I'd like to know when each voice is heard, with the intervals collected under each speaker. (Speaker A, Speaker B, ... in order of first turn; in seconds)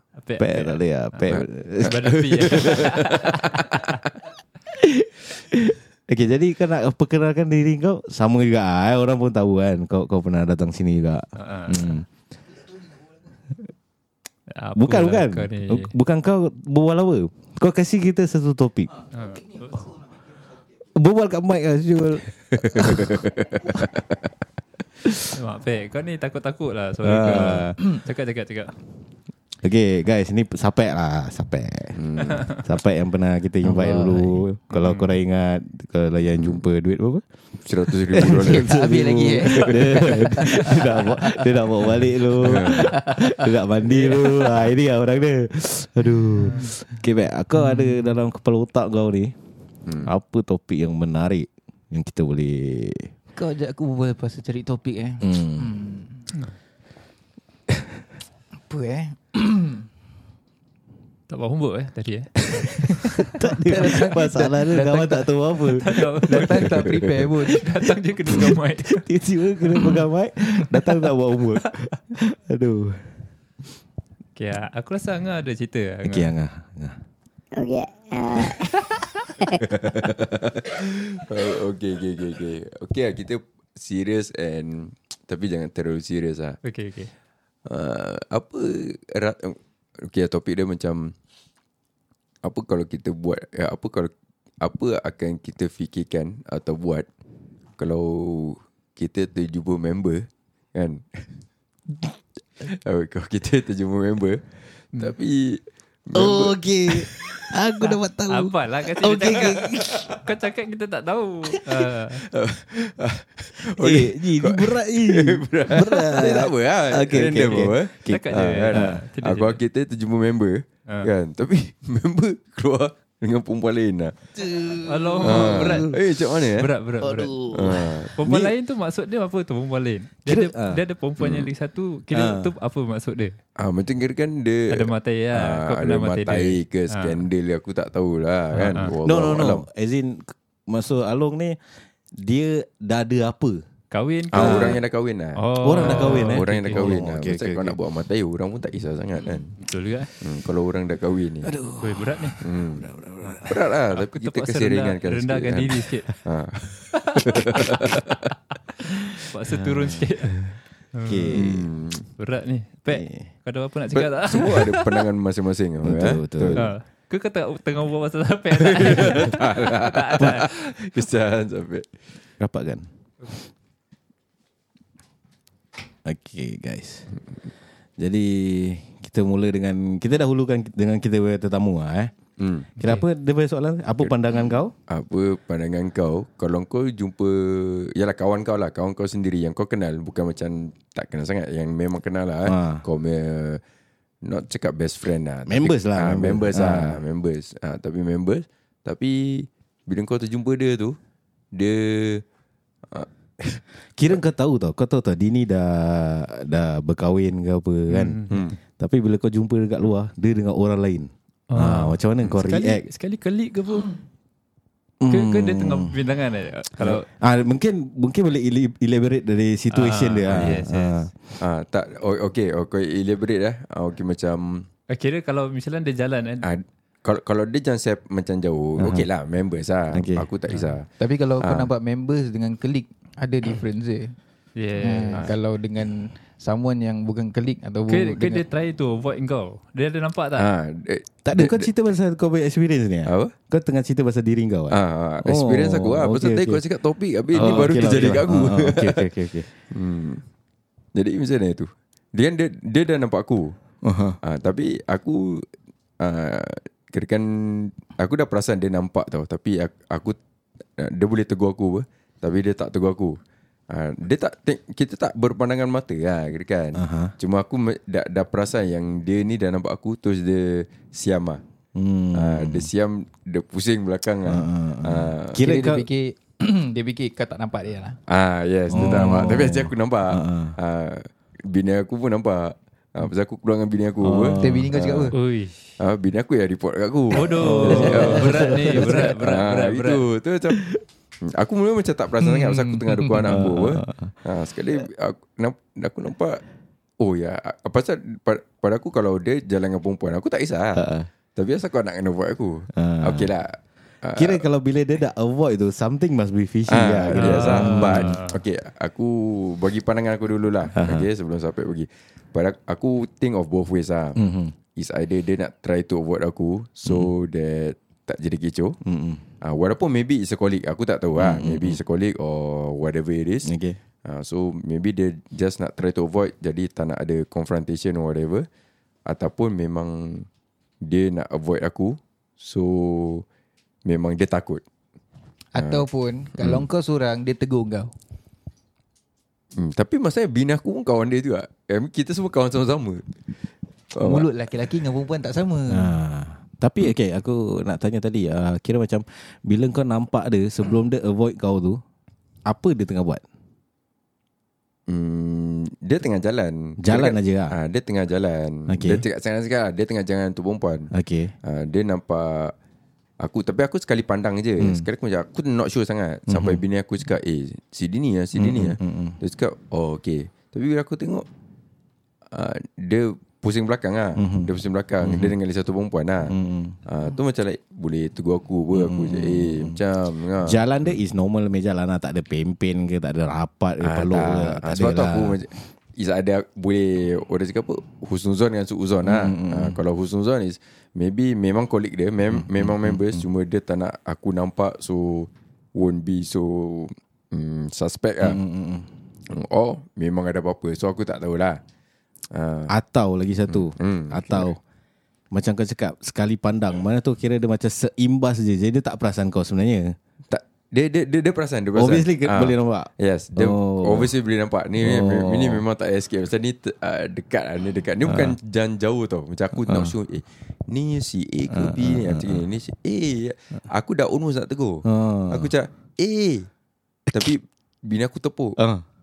Speaker A: 0.1-3.7, 11.3-11.9, 14.5-15.9, 19.1-19.9, 25.3-28.8, 34.7-35.1, 61.3-63.5, 65.8-66.7, 67.4-69.0, 69.7-69.9, 74.3-76.3, 86.6-87.1, 107.8-112.2, 118.0-119.6, 124.8-126.0, 126.6-127.3, 128.2-133.3, 134.7-137.2, 138.5-138.9, 143.9-144.8, 145.3-147.0, 149.6-150.1, 151.8-152.4, 153.3-156.1, 159.3-161.5, 162.2-165.1, 166.6-170.9, 182.8-183.1, 207.9-208.4, 211.5-213.9, 215.1-217.1, 219.7-221.1, 224.9-226.4, 234.6-235.3, 237.9-240.5, 247.3-248.1, 285.1-285.6, 287.1-290.0, 307.1-308.4
Speaker B: 0.4-2.1, 4.7-12.1, 14.8-19.0, 20.9-23.8, 27.0-27.8, 29.6-37.2, 37.9-49.3, 50.0-53.1, 55.2-55.7, 63.3-66.6, 68.4-73.1, 76.0-77.0, 106.1-110.1, 113.8-119.0, 124.4-126.0, 127.0-128.5, 130.2-130.8, 132.1-132.5, 139.0-141.6, 142.2-143.6, 144.3-144.8, 145.6-147.8, 151.4-153.5, 159.5-160.5, 161.1-161.6, 162.9-163.3, 165.8-166.6, 172.4-172.8, 176.1-177.1, 178.0-182.1, 182.8-184.7, 192.4-192.8, 195.5-197.0, 203.9-208.2, 208.8-212.8, 215.0-215.9, 216.8-221.3, 228.8-229.1, 229.9-230.2, 241.2-246.6, 247.3-249.5, 253.8-254.2, 266.7-267.1, 271.7-272.7, 274.2-275.9, 278.7-280.6, 284.0-284.7, 287.4-288.9, 293.2-294.1, 300.7-301.1, 302.7-303.3, 304.2-308.2, 310.7-311.1, 314.1-314.6, 318.8-319.2, 321.2-321.8, 323.4-323.8, 345.7-351.8, 352.4-353.2, 356.8-357.6, 358.7-359.0, 360.9-361.3, 364.6-364.9, 366.3-366.6, 368.3-369.2, 374.2-375.3, 376.2-376.8, 378.7-379.8, 380.4-385.5, 389.0-389.8, 392.3-393.2, 398.2-398.9, 402.7-404.6, 405.3-409.9, 411.8-414.1, 414.8-415.6, 418.1-418.4, 419.6-419.9, 421.5-422.4, 424.8-425.5, 428.6-428.8
Speaker C: 1.3-3.8, 22.7-24.0, 31.9-32.5, 36.4-36.6, 37.6-38.7, 39.5-40.0, 42.4-42.8, 49.8-50.1, 79.6-86.6, 87.7-91.1, 92.4-97.1, 97.8-101.2, 102.6-107.5, 112.2-124.2, 125.2-126.7, 127.5-128.1, 131.2-131.5, 133.6-139.6, 144.3-149.5, 150.2-151.5, 152.4-152.8, 153.5-158.3, 161.3-162.1, 163.9-166.7, 168.6-171.9, 182.4-182.7, 184.9-193.6, 194.2-201.0, 201.5-202.2, 202.9-203.6, 208.3-208.6, 221.4-224.7, 226.4-230.9, 231.4-231.7, 240.4-241.7, 243.1-243.3, 244.7-249.1, 249.7-250.2, 250.9-253.6, 254.2-255.4, 256.0-260.2, 260.8-263.2, 263.7-271.4, 272.1-275.4, 278.1-285.1, 285.8-290.7, 291.2-296.4, 297.0-300.8, 301.3-304.4, 306.7-314.2, 314.8-318.8, 319.4-323.5, 324.1-328.5, 329.1-330.3, 330.8-333.2, 333.9-334.6, 335.6-335.8, 336.4-336.6, 339.6-343.2, 343.9-344.3, 354.9-360.9, 361.4-362.5, 363.2-371.3, 372.3-376.3, 376.9-380.6, 383.8-398.4, 399.3-401.6, 402.3-402.7, 403.5-404.5, 410.3-426.5, 427.1-428.6
Speaker D: 33.6-34.4, 38.5-41.2, 42.7-43.1, 53.3-56.2, 58.7-59.8, 63.6-65.3, 66.2-67.7, 231.0-234.1, 234.8-238.4, 275.4-278.0, 284.4-285.1, 287.5-287.8, 292.2-292.9, 335.5-337.9, 344.0-345.9
Speaker E: 77.5-79.7